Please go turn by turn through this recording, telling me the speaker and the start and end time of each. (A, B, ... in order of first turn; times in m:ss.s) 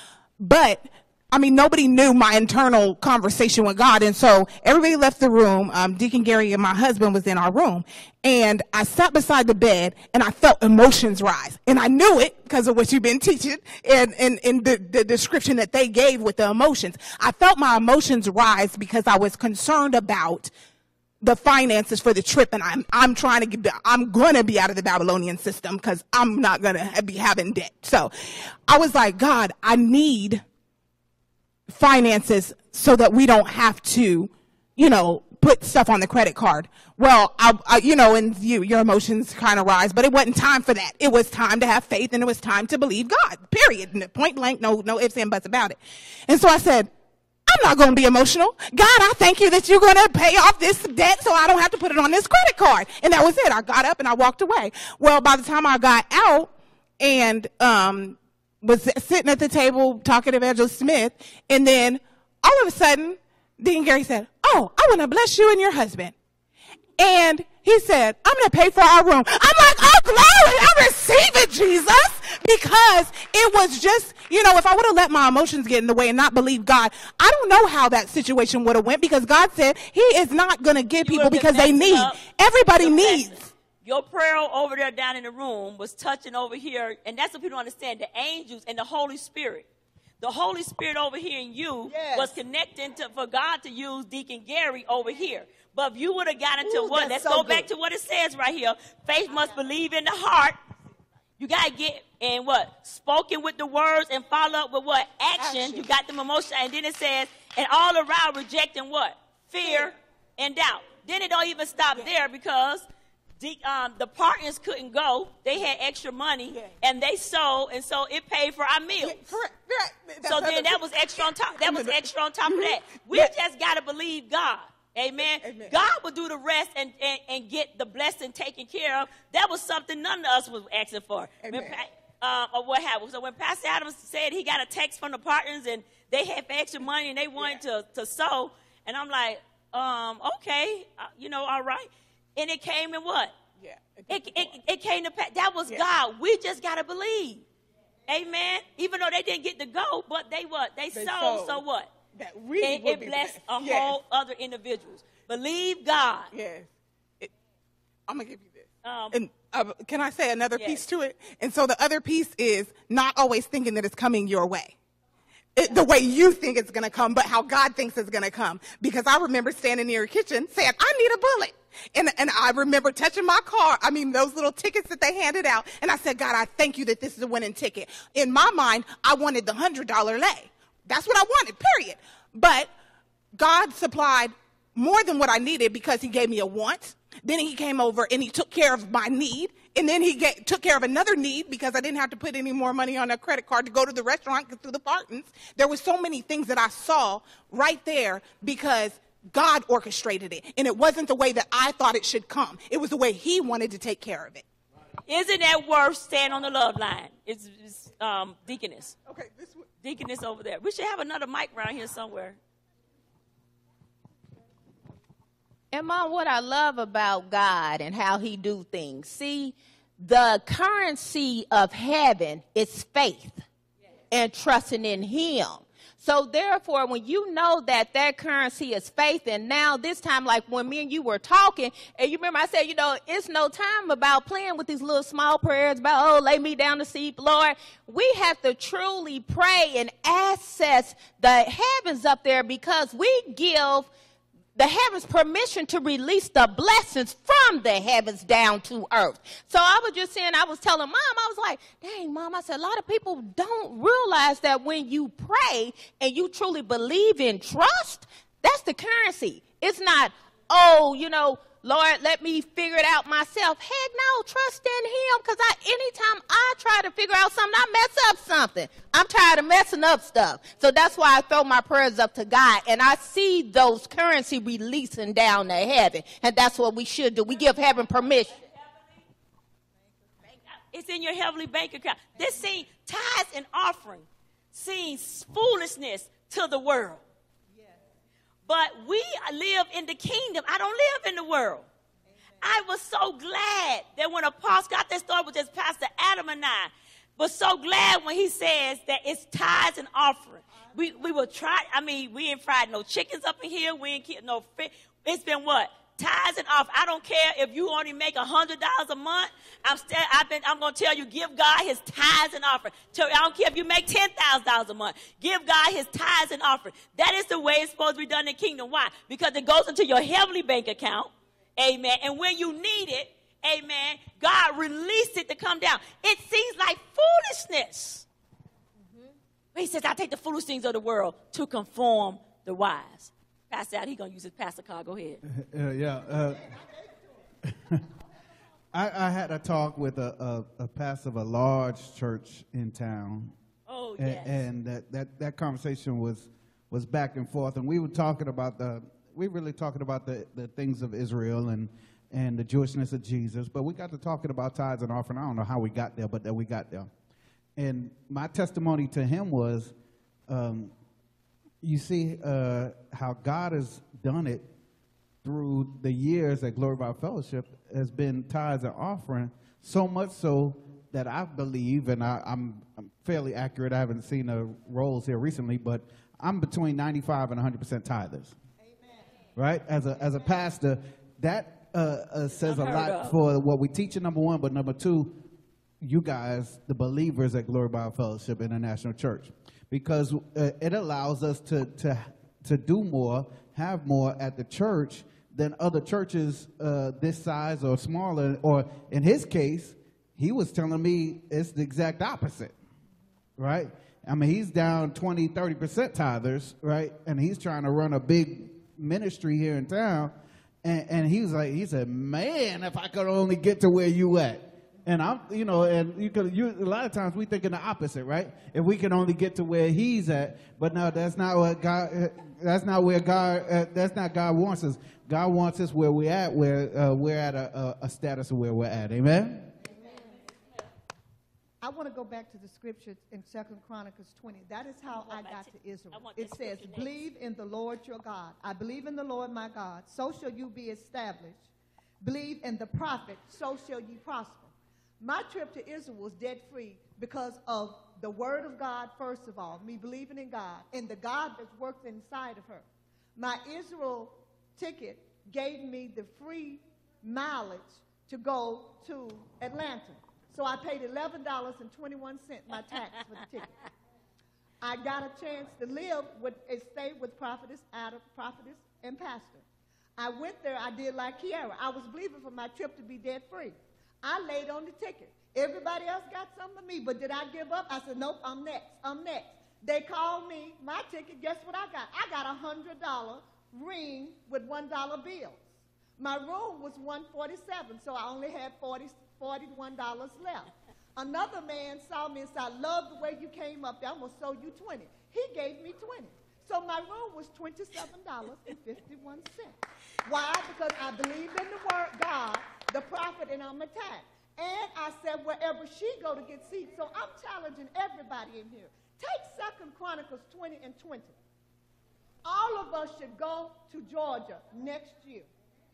0:00.4-0:20.5 A
0:21.2-0:30.4 A
0:31.7-0:46.9 A
0:47.5-1:06.1 A
1:07.0-1:23.5 A
1:21.0-1:29.7 B
1:30.2-1:40.6 B
1:31.9-1:32.4 C
1:36.7-1:37.5 A
1:37.3-1:37.6 C
1:41.4-1:52.8 B
1:45.4-1:45.8 A
1:49.6-1:49.9 A
1:53.4-1:59.4 B
1:59.0-2:03.3 A
2:00.2-2:23.4 B
2:05.4-2:05.7 A
2:11.4-2:11.8 A
2:17.4-2:17.6 A
2:23.6-2:24.6 A
2:24.1-2:27.4 B
2:28.1-2:31.9 B
2:30.9-2:34.0 A
2:32.6-2:36.3 B
2:36.3-2:37.3 A
2:38.1-2:44.7 A
2:38.8-2:39.2 B
2:40.5-2:40.8 B
2:45.5-3:02.7 A
3:03.4-3:24.4 A
3:25.1-3:28.9 B
3:29.1-3:29.6 A
3:29.8-3:32.4 B
3:35.7-3:43.4 D
3:44.1-4:03.9 D
4:04.6-4:38.3 D
4:38.3-4:38.9 B
4:40.7-4:47.0 B
4:48.4-4:51.7 B
4:52.4-5:28.0 B
5:29.5-5:35.2 B
5:35.2-5:36.5 E
5:37.5-5:37.8 E
5:38.7-5:43.3 E
5:43.7-5:44.4 B
5:44.0-5:56.9 E
5:57.6-5:59.7 E
6:00.3-6:00.7 E
6:01.6-6:04.5 E
6:05.2-6:18.3 E
6:18.6-6:19.1 C
6:19.4-6:25.2 E
6:22.4-6:23.2 B
6:25.8-6:42.5 E
6:43.4-7:09.5 E
7:11.6-7:21.4 C
7:14.9-7:17.1 B
7:22.0-7:32.6 C
7:33.2-7:43.5 C
7:44.6-7:49.4 C
7:50.0-8:05.4 C
8:06.0-8:31.2 C
8:32.2-8:35.3 C